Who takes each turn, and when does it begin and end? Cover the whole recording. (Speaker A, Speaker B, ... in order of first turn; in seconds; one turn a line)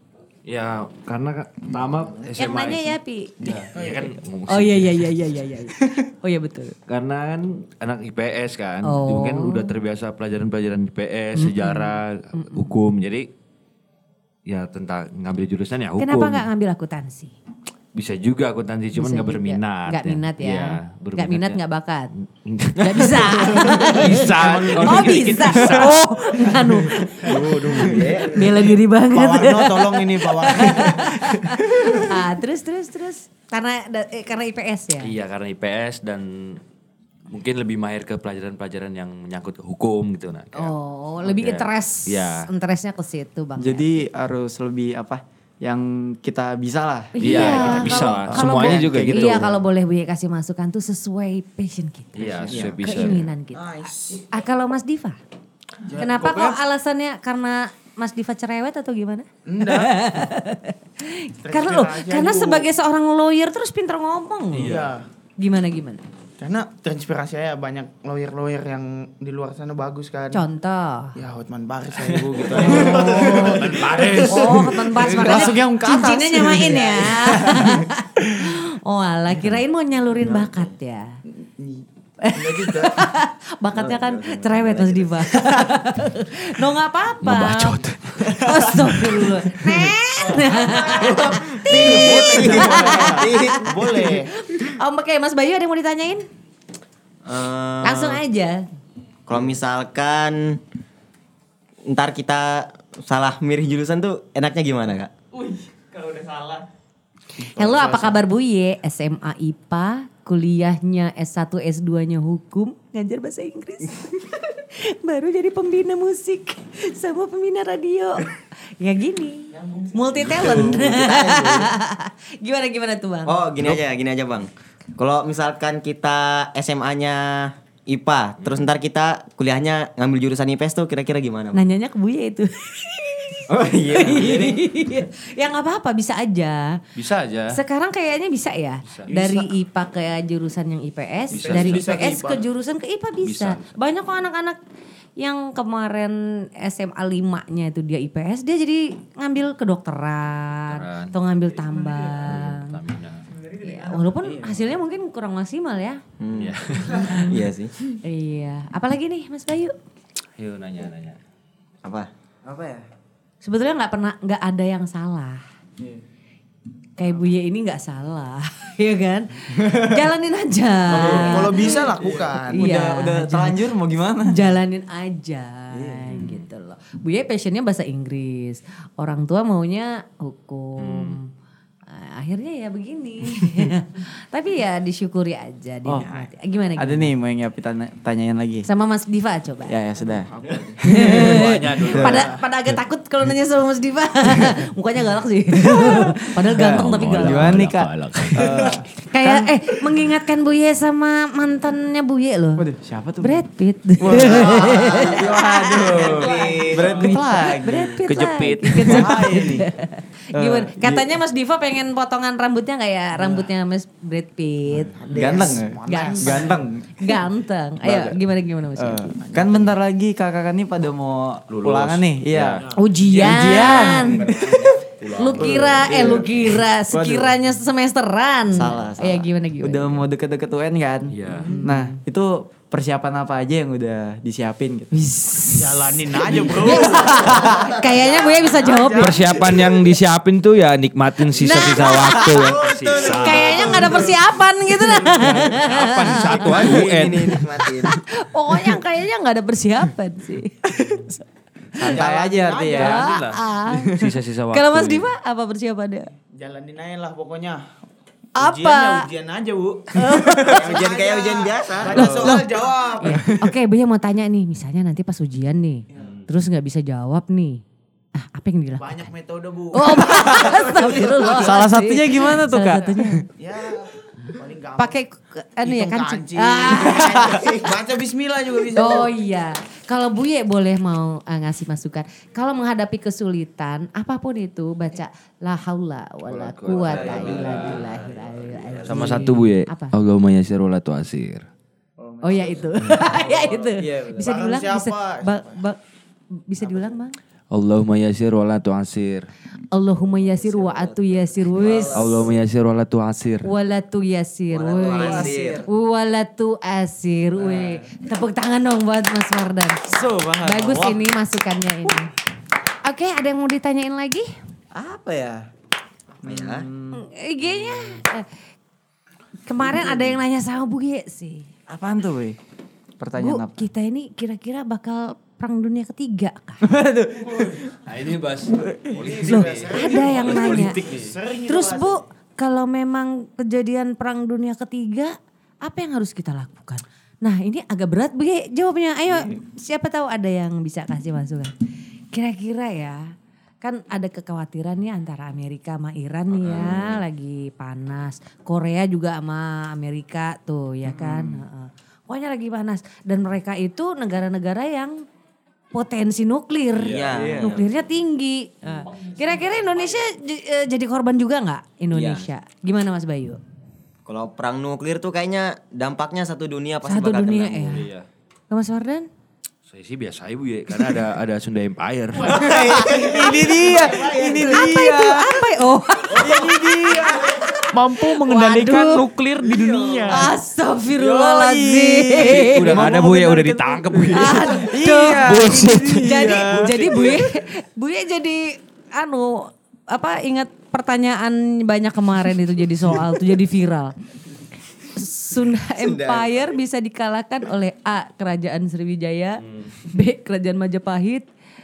Speaker A: 0.5-5.2
Speaker B: 2.4-3.5
Speaker C: 3.8-4.1
Speaker B: 4.5-6.8
Speaker A: 6.9-13.3
Speaker B: 8.8-9.7
Speaker B: 11.4-12.7
Speaker A: 14.5-16.5
Speaker B: 16.0-17.3
Speaker A: 17.9-21.6
Speaker B: 18.9-22.1
Speaker A: 22.4-26.6
Speaker B: 22.7-35.1
Speaker C: 23.8-25.3
Speaker D: 27.3-28.4
Speaker E: 27.4-28.2
Speaker C: 28.0-32.1
Speaker A: 35.0-36.6
Speaker A: 37.3-42.5
Speaker B: 40.5-44.0
Speaker E: 43.6-49.6
Speaker B: 47.1-53.8
Speaker A: 47.2-49.5
Speaker A: 52.2-53.3
Speaker E: 52.5-52.8
Speaker C: 53.6-54.3
Speaker D: 53.7-54.2
Speaker B: 54.3-55.2
Speaker C: 55.9-56.6
Speaker B: 56.0-64.8
Speaker C: 59.5-60.3
Speaker C: 61.4-62.7
Speaker A: 64.5-64.9
Speaker C: 64.6-65.0
Speaker B: 65.4-66.0
Speaker C: 66.4-70.4
Speaker B: 70.3-71.2
Speaker C: 71.2-75.6
Speaker A: 72.0-75.3
Speaker B: 72.6-81.2
Speaker E: 72.9-73.3
Speaker E: 74.5-77.9
Speaker C: 76.6-77.1
Speaker D: 80.2-80.7
Speaker C: 81.3-83.1
Speaker B: 82.2-96.2
Speaker D: 83.7-85.7
Speaker A: 87.2-88.8
Speaker C: 90.3-94.3
Speaker D: 91.0-93.7
Speaker D: 97.2-98.2
Speaker B: 97.8-98.7
Speaker D: 99.3-100.6
Speaker D: 101.9-105.1
Speaker C: 105.5-106.5
Speaker C: 107.4-108.2
Speaker B: 107.5-123.4
Speaker D: 119.8-121.7
Speaker D: 123.3-131.7
Speaker A: 128.4-128.7
Speaker B: 131.5-136.8
Speaker E: 133.5-134.5
Speaker D: 133.5-134.6
Speaker A: 133.9-134.2
Speaker A: 137.0-137.6
Speaker B: 137.5-144.6
Speaker A: 138.9-139.1
Speaker C: 139.1-139.5
Speaker A: 141.3-142.1
Speaker C: 141.4-142.5
Speaker A: 143.2-143.8
Speaker B: 145.2-152.8
Speaker A: 150.7-151.2
Speaker A: 151.9-153.2
Speaker B: 153.5-156.0
Speaker E: 154.2-154.7
Speaker D: 156.2-158.0
Speaker A: 156.3-157.1
Speaker B: 157.0-157.4
Speaker B: 158.0-159.8
Speaker A: 160.4-161.2
Speaker D: 161.8-162.1
Speaker E: 162.4-162.9
Speaker B: 163.4-165.4
Speaker B: 167.0-171.9
Speaker E: 170.9-174.6
Speaker C: 170.9-172.7
Speaker B: 172.5-173.6
Speaker B: 174.2-181.3
Speaker E: 175.7-176.2
Speaker A: 176.1-176.4
Speaker A: 180.8-181.2
Speaker B: 181.9-187.1
Speaker E: 185.8-186.2
Speaker E: 186.8-188.7
Speaker B: 188.7-189.8
Speaker E: 189.7-192.3
Speaker C: 190.0-190.8
Speaker B: 190.9-197.7
Speaker A: 190.9-192.3
Speaker E: 195.5-199.6
Speaker A: 196.6-198.8
Speaker B: 199.1-202.7
Speaker E: 202.6-203.4
Speaker B: 203.2-219.1
Speaker E: 204.0-208.0
Speaker C: 204.3-205.2
Speaker D: 204.4-205.3
Speaker C: 205.8-207.1
Speaker D: 205.9-207.1
Speaker A: 208.1-209.3
Speaker E: 208.8-209.7
Speaker E: 210.3-211.1
Speaker E: 213.2-213.5
Speaker C: 215.0-216.7
Speaker E: 215.1-217.2
Speaker E: 217.8-218.2
Speaker E: 218.8-227.3
Speaker D: 219.2-219.7
Speaker A: 221.5-222.7
Speaker B: 222.7-224.3
Speaker A: 223.4-224.4
Speaker D: 224.3-224.9
Speaker A: 225.0-226.3
Speaker B: 225.2-230.0
Speaker E: 228.5-237.7
Speaker A: 231.1-231.5
Speaker B: 231.4-232.0
Speaker B: 235.0-239.3
Speaker C: 235.6-239.8
Speaker A: 238.9-244.2
Speaker B: 241.4-246.7
Speaker C: 242.2-244.2
Speaker C: 244.9-245.8
Speaker A: 245.1-247.4
Speaker D: 246.3-248.0
Speaker B: 247.6-250.7
Speaker E: 250.7-251.2
Speaker E: 251.8-253.1
Speaker C: 251.8-253.1
Speaker A: 252.8-255.1
Speaker B: 252.8-253.9
Speaker E: 253.7-254.1
Speaker B: 254.5-256.1
Speaker C: 256.3-257.7
Speaker B: 258.4-259.1
Speaker C: 258.4-263.3
Speaker B: 259.9-260.6
Speaker D: 260.5-262.3
Speaker E: 261.9-262.4
Speaker B: 261.9-267.6
Speaker E: 263.0-263.3
Speaker A: 266.0-266.3
Speaker B: 268.2-269.1
Speaker C: 268.8-271.6
Speaker B: 269.7-273.3
Speaker E: 270.1-270.5
Speaker E: 271.4-273.3
Speaker C: 273.3-275.0
Speaker B: 274.8-277.6
Speaker C: 275.6-279.1
Speaker B: 278.7-289.9
Speaker A: 286.3-287.9
Speaker E: 286.9-287.8
Speaker C: 287.0-287.8
Speaker D: 287.0-287.6
Speaker A: 288.9-291.5
Speaker E: 292.0-294.4
Speaker B: 292.2-295.8
Speaker C: 294.2-295.6
Speaker B: 296.5-297.2
Speaker A: 297.5-299.3
Speaker B: 299.7-302.1
Speaker D: 300.1-302.3
Speaker E: 301.6-301.9
Speaker A: 301.9-303.5
Speaker B: 303.4-312.1
Speaker D: 304.5-305.6
Speaker E: 304.8-305.7
Speaker E: 307.4-307.8
Speaker E: 309.9-311.1
Speaker B: 312.8-314.3
Speaker E: 314.7-315.5
Speaker D: 316.2-316.7
Speaker E: 316.2-317.0
Speaker B: 316.9-318.3
Speaker B: 319.5-321.5
Speaker E: 319.6-320.1
Speaker E: 321.7-322.4
Speaker E: 323.0-323.7
Speaker B: 323.2-326.6
Speaker E: 326.6-327.8
Speaker A: 327.9-331.1
Speaker E: 328.5-329.2
Speaker C: 329.0-332.0
Speaker B: 329.3-330.8
Speaker B: 331.5-341.5
Speaker B: 342.1-343.1
Speaker B: 343.6-355.0
Speaker A: 346.3-347.0
Speaker E: 350.9-351.4
Speaker B: 355.7-363.4
Speaker A: 356.8-357.3
Speaker D: 356.8-357.7
Speaker E: 357.1-357.6
Speaker D: 361.9-362.3
Speaker D: 364.1-367.8
Speaker B: 366.9-367.9
Speaker A: 367.7-368.1
Speaker B: 368.5-369.1
Speaker A: 369.7-372.4
Speaker C: 372.2-374.4
Speaker E: 372.3-375.5
Speaker D: 372.3-374.5
Speaker B: 374.4-379.0
Speaker E: 376.1-377.4
Speaker C: 376.2-377.1
Speaker C: 377.7-380.3
Speaker E: 378.4-378.9
Speaker D: 379.6-380.0
Speaker E: 380.0-380.4
Speaker B: 380.1-382.7
Speaker E: 380.9-387.1
Speaker A: 382.2-384.6
Speaker B: 384.1-393.9
Speaker A: 385.1-386.1
Speaker C: 386.2-387.3
Speaker B: 394.9-401.3
Speaker D: 395.7-396.5
Speaker A: 399.4-399.8